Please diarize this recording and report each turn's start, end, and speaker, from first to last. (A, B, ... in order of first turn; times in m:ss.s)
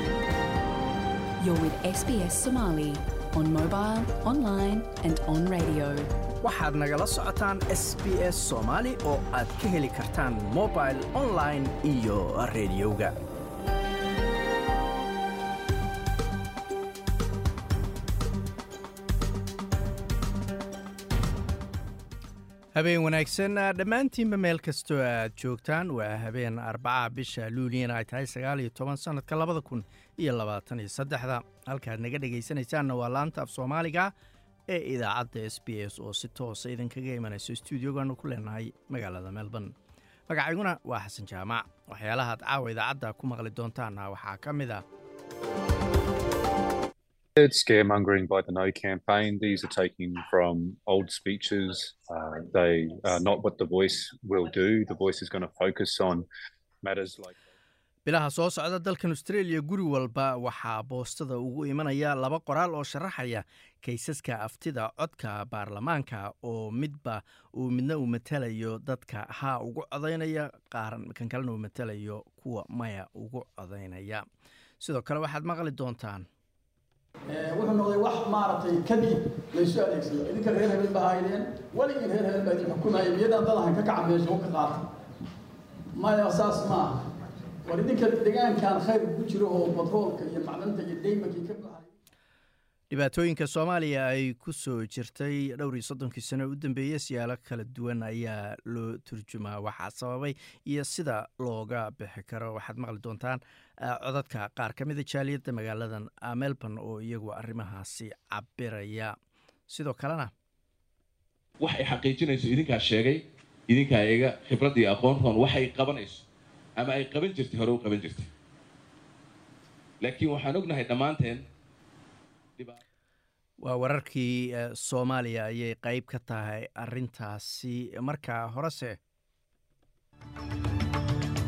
0:01.4-0:06.1 A
0:06.4-0:13.2 B
0:22.7-0:34.1 B
0:34.7-0:39.7 B
0:40.3-0:44.8 B
0:47.4-0:56.3 C
0:56.8-0:57.4 C
0:58.0-1:14.2 B
1:14.8-1:16.3 B
1:17.3-1:24.8 D
1:26.0-1:27.0 D
1:27.6-1:31.9 D
1:32.9-1:49.1 B
1:49.7-1:50.3 B
1:51.6-1:56.2 E
1:56.8-1:58.3 E
2:00.0-2:01.4 E
2:03.6-2:09.0 B